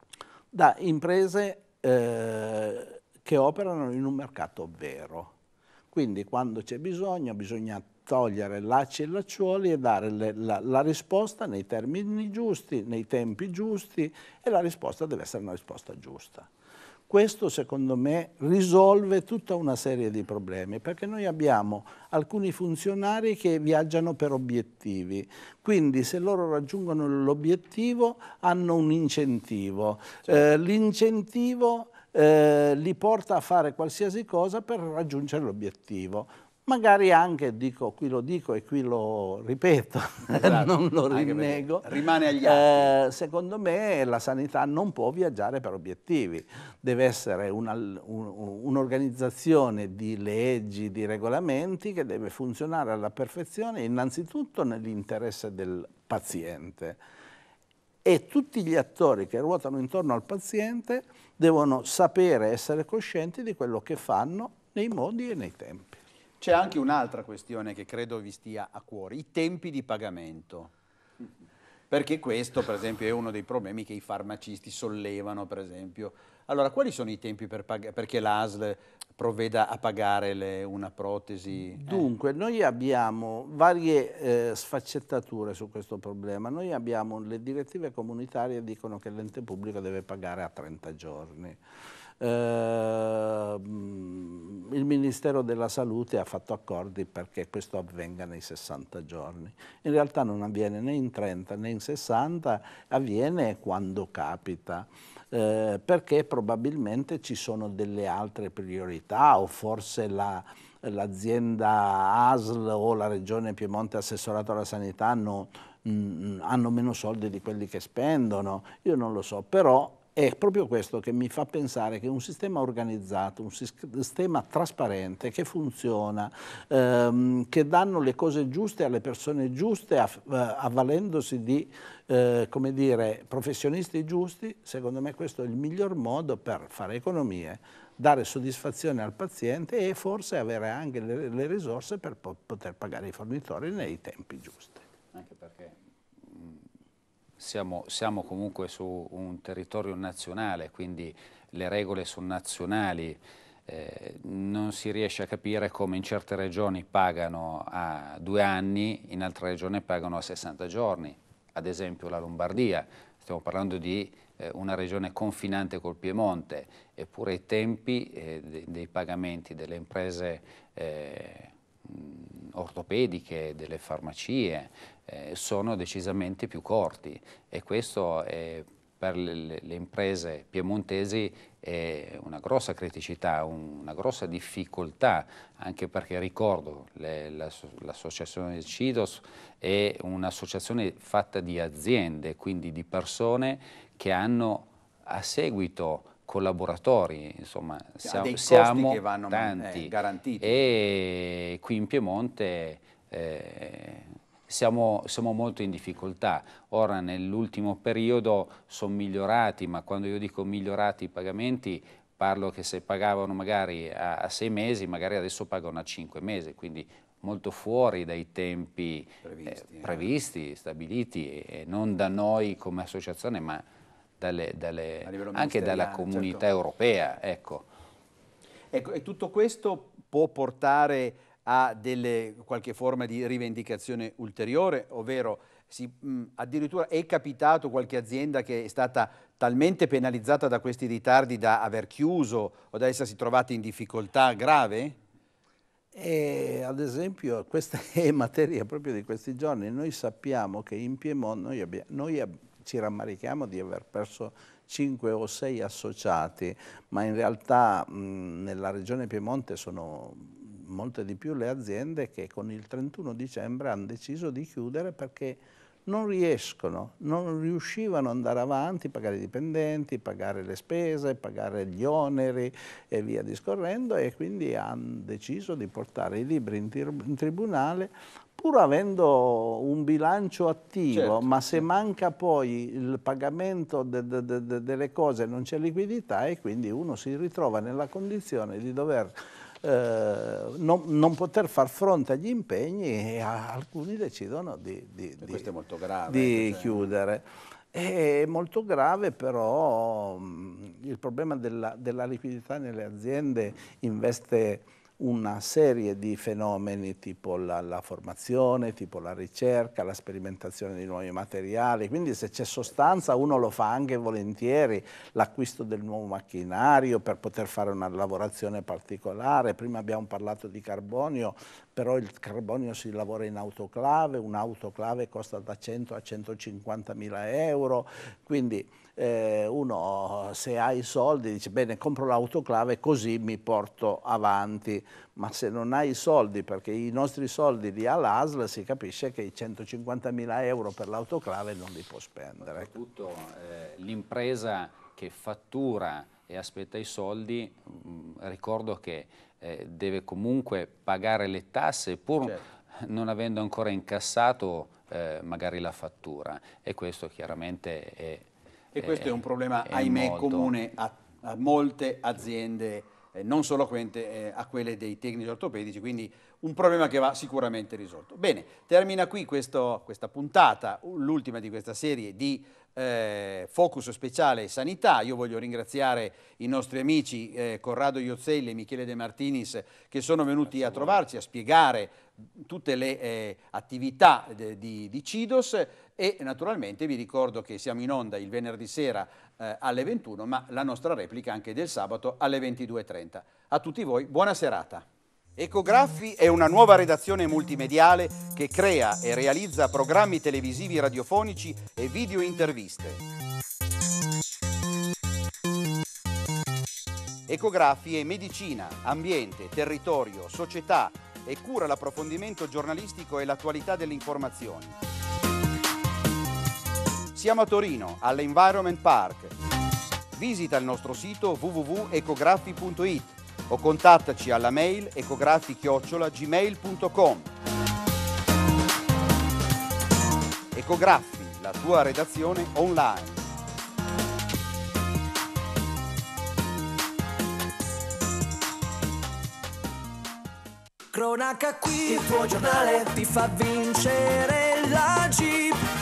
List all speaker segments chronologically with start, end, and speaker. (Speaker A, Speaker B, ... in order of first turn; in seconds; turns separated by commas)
Speaker A: 0.5-5.3, Speaker A: 5.9-16.5, Speaker A: 17.1-57.0, Speaker B: 40.3-42.9, Speaker A: 58.0-66.0, Speaker B: 66.4-70.7, Speaker B: 71.9-82.1, Speaker A: 81.8-91.6, Speaker A: 92.2-144.8, Speaker C: 145.1-146.6, Speaker C: 147.4-223.6, Speaker B: 198.0-200.6, Speaker B: 219.2-220.1, Speaker C: 224.2-227.7, Speaker B: 225.0-226.4, Speaker B: 228.7-244.9, Speaker A: 245.9-295.5, Speaker B: 280.9-281.5, Speaker B: 295.2-296.8, Speaker A: 296.1-342.7, Speaker C: 342.4-358.3, Speaker B: 358.7-394.9, Speaker C: 358.8-360.5, Speaker B: 395.4-403.0, Speaker B: 407.3-414.7, Speaker B: 417.1-419.3, Speaker B: 420.1-427.3, Speaker B: 430.5-433.2, Speaker D: 440.9-445.6